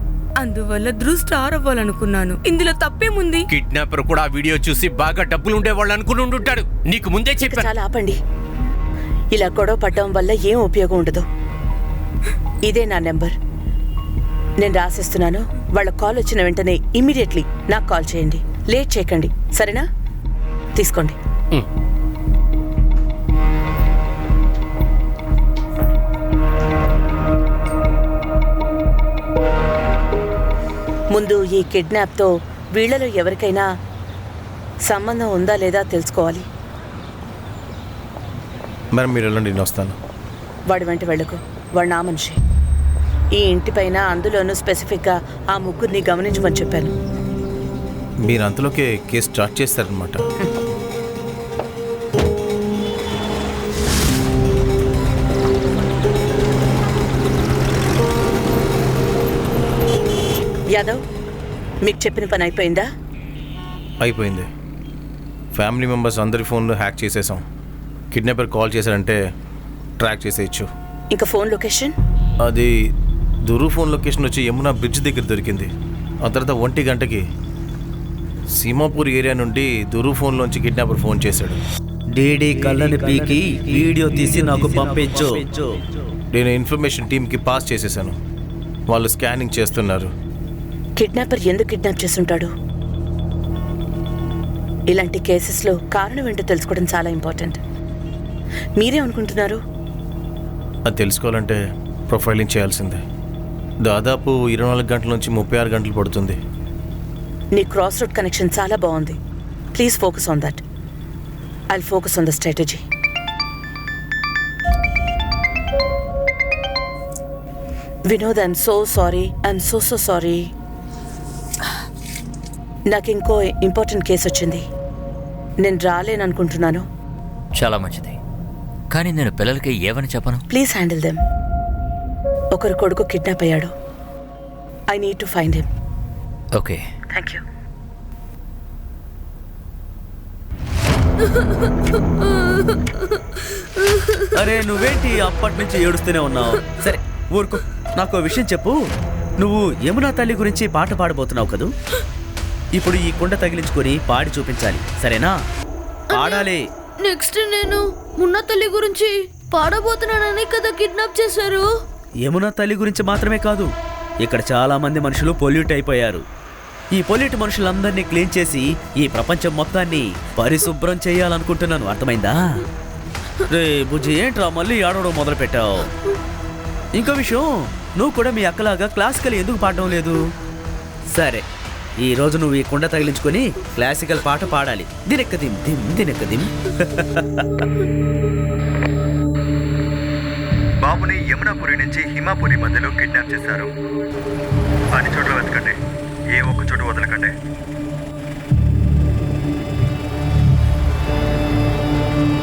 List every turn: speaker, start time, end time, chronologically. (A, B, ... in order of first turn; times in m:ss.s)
0:00.4-0:03.4 A
0:03.5-0:07.7 B
0:07.4-0:08.2 C
0:09.3-0:11.2 C
0:12.6-0:13.3 C
0:14.6-0:19.9 C
0:20.8-0:21.2 C
0:31.1-0:33.7 C
0:34.9-0:36.4 C
0:39.0-0:40.0 D
0:40.7-0:42.4 C
0:43.4-0:46.9 C
0:48.2-0:50.2 D
1:00.7-1:01.0 C
1:01.8-1:02.9 C
1:04.0-1:04.5 D
1:05.5-1:07.4 D
1:08.1-1:09.2 D
1:10.0-1:10.7 D
1:11.1-1:11.9 C
1:12.4-1:12.7 D
1:13.5-1:15.7 D
1:16.2-1:17.2 D
1:18.6-1:21.6 D
1:22.2-1:25.8 E
1:24.6-1:25.2 D
1:26.3-1:28.2 D
1:28.9-1:30.1 D
1:31.0-1:32.5 C
1:34.9-1:37.6 C
1:38.8-1:39.6 C
1:40.9-1:43.0 D
1:43.8-1:46.4 D
1:47.5-1:49.2 C
1:49.7-1:50.6 C
1:51.7-1:52.8 C
1:58.1-2:00.5 C
2:02.9-2:04.6 C
2:05.6-2:06.8 C
2:07.6-2:08.2 F
2:08.9-2:10.4 F
2:10.5-2:11.2 C
2:12.5-2:13.7 C
2:14.9-2:15.7 C
2:16.6-2:16.8 F
2:17.1-2:17.4 C
2:24.3-2:28.8 E
2:29.4-2:31.7 E
2:32.7-2:35.4 E
2:36.1-2:36.5 G
2:36.1-2:36.6 E
2:37.0-2:41.7 G
2:42.2-2:43.7 E
2:44.2-2:46.2 E
2:46.9-2:52.6 E
2:53.5-2:55.9 E
2:56.9-3:00.2 E
3:01.1-3:01.4 E
3:02.0-3:07.6 E
3:10.8-3:13.7 H
3:14.9-3:15.8 H
3:16.3-3:17.3 H